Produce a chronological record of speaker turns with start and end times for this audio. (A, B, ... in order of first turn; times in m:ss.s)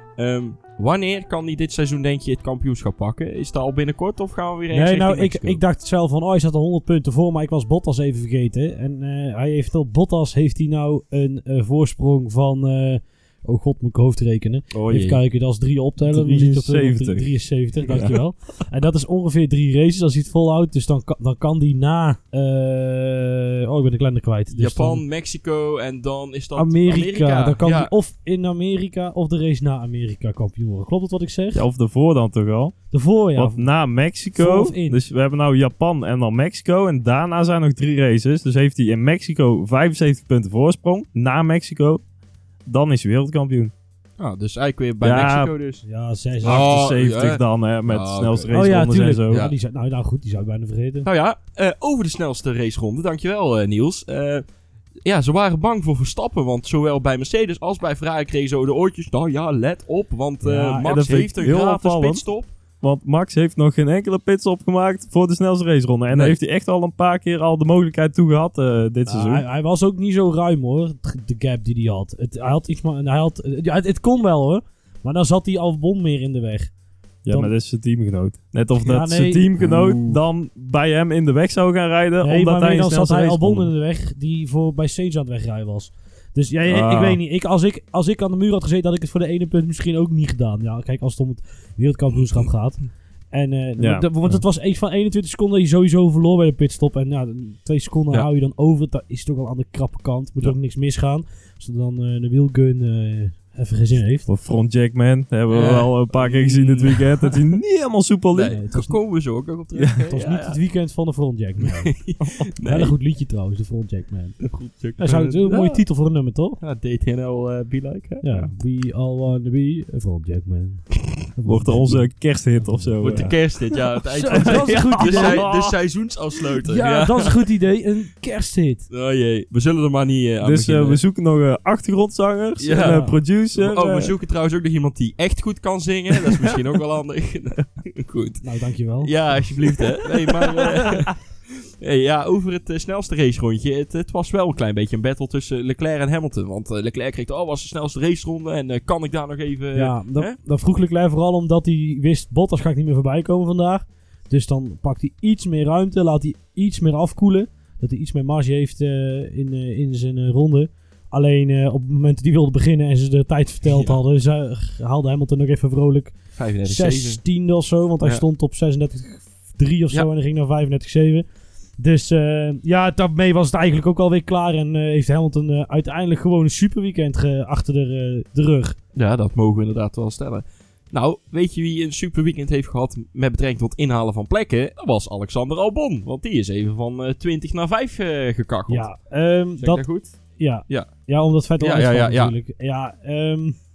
0:00.2-0:05.6 A
0:04.7-0:25.0 B
0:14.7-0:15.2 A
0:16.0-0:17.3 C
0:17.8-0:18.2 C
0:17.8-0:18.2 A
0:24.5-0:27.9 A
0:26.6-0:31.6 B
0:31.5-0:32.7 C
0:32.9-0:33.6 B
0:33.4-0:42.0 C
0:34.4-0:35.0 B
0:42.6-0:43.7 C
0:44.2-0:45.8 A
0:45.0-0:45.5 C
0:45.8-0:46.7 B
0:46.4-0:48.5 A
0:46.4-0:49.4 C
0:48.5-0:51.1 B
0:51.0-0:54.4 A
0:55.0-1:02.5 A
1:00.4-1:00.9 B
1:00.8-1:02.2 C
1:02.8-1:09.4 C
1:06.1-1:06.4 A
1:09.1-1:16.7 B
1:17.2-1:23.7 C
1:18.8-1:19.5 B
1:19.6-1:20.1 A
1:22.2-1:44.3 B
1:26.6-1:27.2 C
1:33.8-1:34.4 C
1:44.3-1:48.5 C
1:45.5-1:47.4 A
1:48.3-1:50.6 A
1:48.4-1:49.0 B
1:50.1-1:52.0 B
1:51.6-1:52.9 A
1:52.6-1:54.4 B
1:54.4-1:55.8 A
1:55.0-1:56.6 B
1:56.6-1:58.5 A
1:58.2-2:03.4 B
2:01.4-2:03.3 C
2:03.0-2:07.4 A
2:04.1-2:05.4 B
2:04.3-2:05.8 C
2:06.6-2:08.8 B
2:08.9-2:11.0 A
2:10.4-2:14.1 C
2:12.6-2:18.4 A
2:12.7-2:13.2 B
2:18.4-2:19.1 B
2:19.0-2:30.4 A
2:20.6-2:21.0 C
2:29.7-2:51.2 B
2:43.7-2:44.0 A
2:46.4-2:47.2 A
2:51.8-2:58.8 B
2:58.9-3:08.9 A
3:08.7-3:09.8 B
3:09.6-3:10.1 A
3:10.4-3:13.6 B
3:11.6-3:12.3 A